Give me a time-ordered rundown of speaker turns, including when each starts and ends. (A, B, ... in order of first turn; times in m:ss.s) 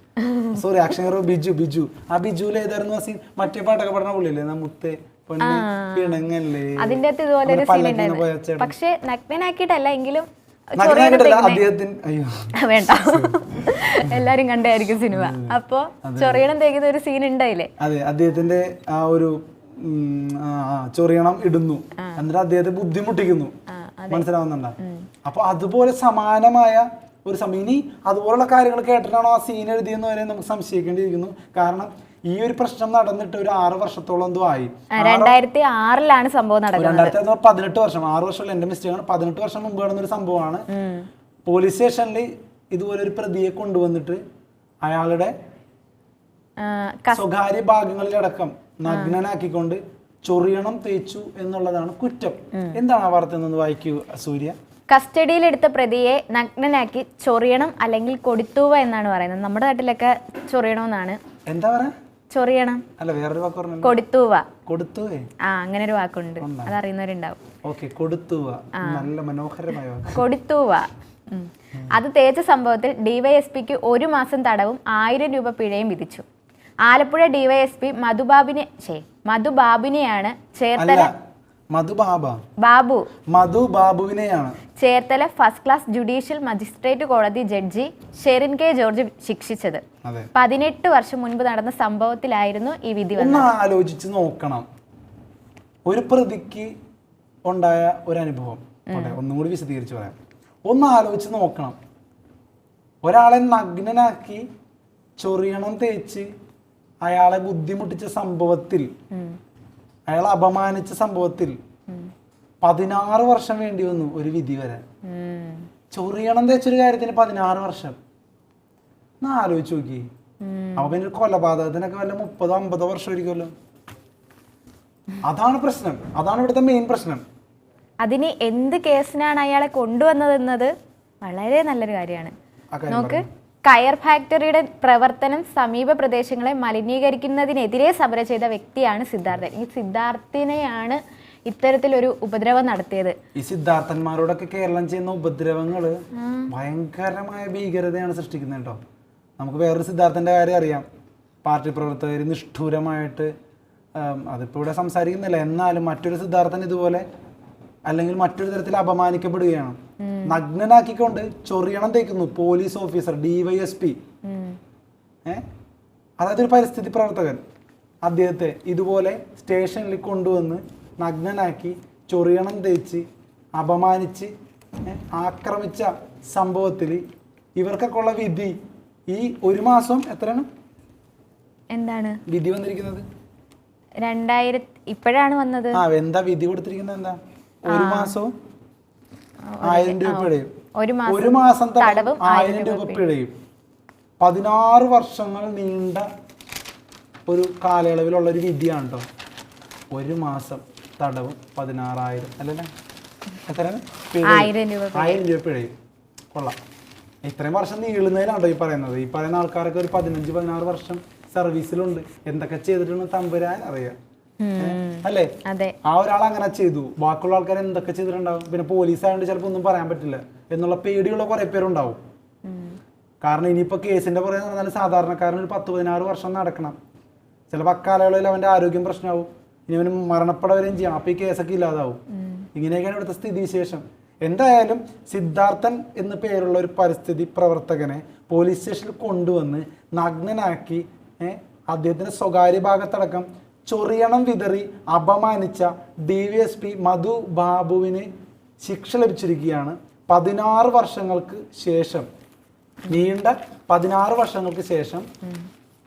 0:00.2-0:00.6 A
0:00.5-0:08.7 B
0:05.4-0:06.2 A
0:06.8-0:11.6 A
0:10.8-0:14.3 B
0:12.6-0:17.7 A
0:15.1-0:16.5 B
0:17.8-0:23.5 B
0:23.7-0:24.3 A
0:24.1-0:35.4 B
0:24.8-0:25.1 A
0:34.9-0:37.2 A
0:36.8-0:40.6 B
0:40.7-0:41.1 A
0:41.5-0:44.2 B
0:44.8-0:45.3 B
0:46.6-0:47.2 A
0:47.1-0:54.6 B
0:48.9-0:49.2 A
0:52.5-0:52.8 A
0:54.9-1:01.2 A
1:01.5-1:01.9 B
1:02.3-1:02.8 A
1:03.0-1:04.0 B
1:03.8-1:04.5 A
1:04.7-1:05.3 B
1:05.4-1:07.4 A
1:06.4-1:06.7 B
1:07.6-1:10.2 B
1:08.8-1:09.1 A
1:10.1-1:16.3 A
1:16.8-1:21.1 A
1:20.8-1:21.1 B
1:21.7-1:22.4 B
1:22.6-1:23.1 A
1:23.3-1:24.6 B
1:24.8-1:29.8 A
1:30.0-1:30.3 B
1:30.4-1:33.5 A
1:33.2-1:34.7 B
1:35.9-1:36.7 B
1:37.5-1:40.2 B
1:38.9-1:39.2 A
1:40.7-1:41.8 B
1:43.0-1:44.4 B
1:45.2-1:46.3 B
1:47.0-1:48.9 B
1:49.1-1:49.4 A
1:50.1-1:51.6 B
1:52.6-1:54.8 B
1:55.0-1:55.7 A
1:55.9-1:58.0 B
1:59.2-2:00.1 B
2:00.4-2:01.0 A
2:00.8-2:03.5 B
2:05.2-2:07.2 B
2:08.0-2:10.7 A
2:11.2-2:12.3 A
2:12.8-2:13.2 B
2:12.9-2:23.2 A
2:23.4-2:28.8 B
2:26.1-2:26.5 A
2:29.4-2:30.9 B
2:31.4-2:33.3 B
2:34.0-2:37.0 B
2:37.9-2:44.0 B
2:40.0-2:40.4 A
2:44.2-2:44.6 A
2:46.2-2:47.4 B
2:48.0-2:53.1 B
2:53.6-2:54.3 B
2:54.8-2:57.0 B
2:57.6-2:58.5 B
2:59.1-3:00.5 B
3:01.7-3:02.2 A
3:02.3-3:03.0 B
3:04.0-3:05.8 A
3:05.7-3:08.3 B
3:07.7-3:08.2 A
3:09.5-3:13.1 A
3:09.6-3:10.5 B
3:11.1-3:13.3 B
3:14.2-3:16.1 B
3:17.3-3:19.1 B
3:19.9-3:22.7 B
3:23.5-3:25.7 B
3:24.2-3:25.2 A
3:27.2-3:34.0 B
3:34.4-3:35.8 A
3:34.6-3:35.3 B
3:35.8-3:42.0 B
3:42.4-3:42.8 A
3:43.2-3:46.8 B
3:47.5-3:52.0 B
3:52.1-3:52.5 A
3:52.6-4:08.1 B
4:08.6-4:12.1 B
4:12.9-4:15.1 B